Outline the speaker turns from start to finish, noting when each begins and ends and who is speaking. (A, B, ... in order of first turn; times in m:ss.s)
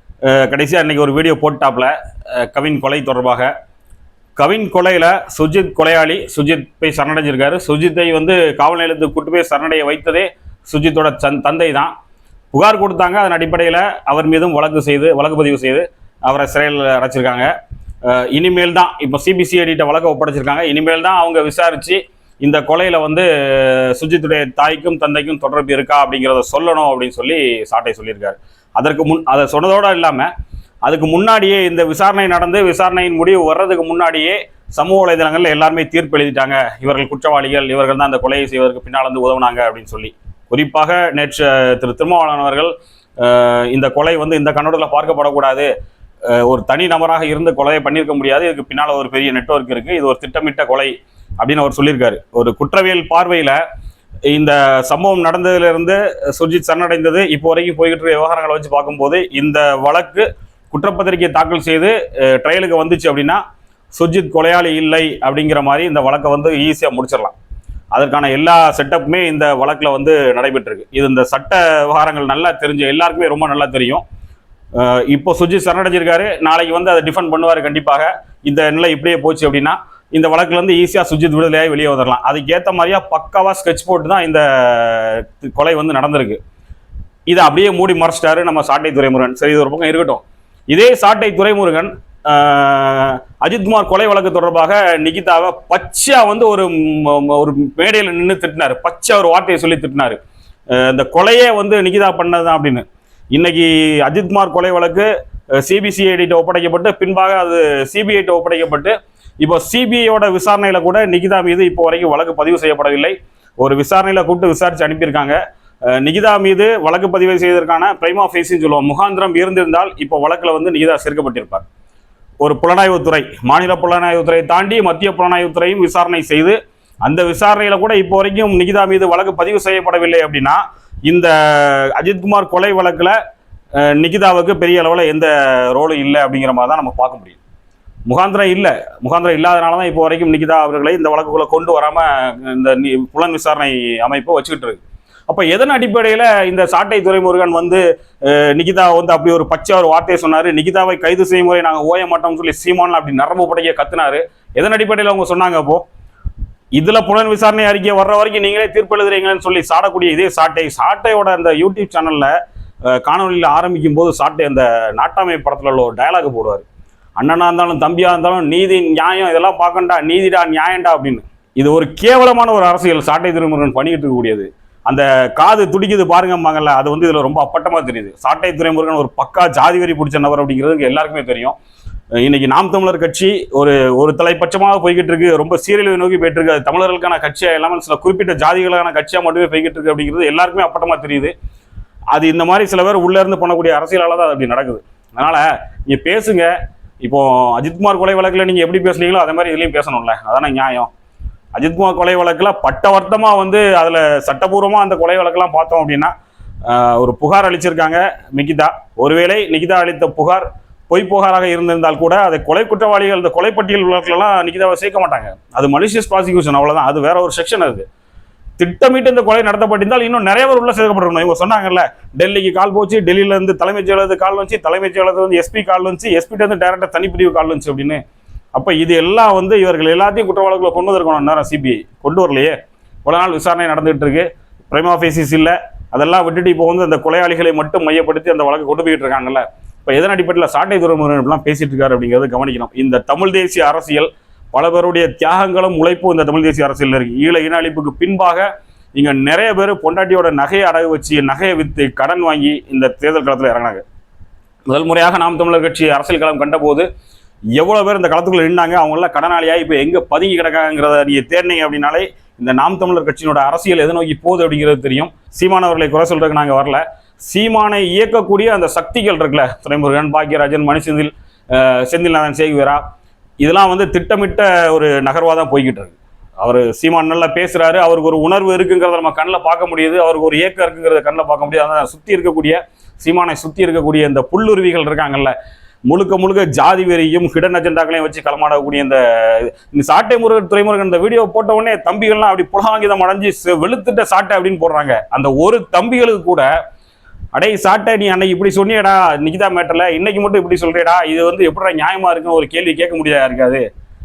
0:00.2-0:03.5 A
0:04.4-0:11.9 A
0:12.5-0:17.5 A
0:18.0-0:30.3 A
0:30.8-0:45.7 A
0:46.3-0:53.6 A
0:54.3-1:03.4 A
1:03.9-1:07.4 A
1:07.9-1:14.0 A
1:14.8-1:26.4 A
1:27.3-1:40.2 A
1:40.7-1:55.4 A
1:55.9-2:01.6 A
2:02.4-2:13.2 A
2:13.8-2:17.4 A
2:18.1-2:35.8 A
2:36.8-2:42.3 A
2:42.9-2:46.6 A
2:47.2-3:01.6 A
3:02.2-3:11.3 A
3:12.1-3:20.9 A
3:21.6-3:26.1 A
3:26.6-3:37.9 A
3:38.6-3:48.0 A
3:48.5-4:13.8 A
4:14.7-4:16.9 A
4:17.6-4:32.8 A
4:33.4-4:45.3 A
4:45.9-4:56.5 A
4:57.3-5:03.6 A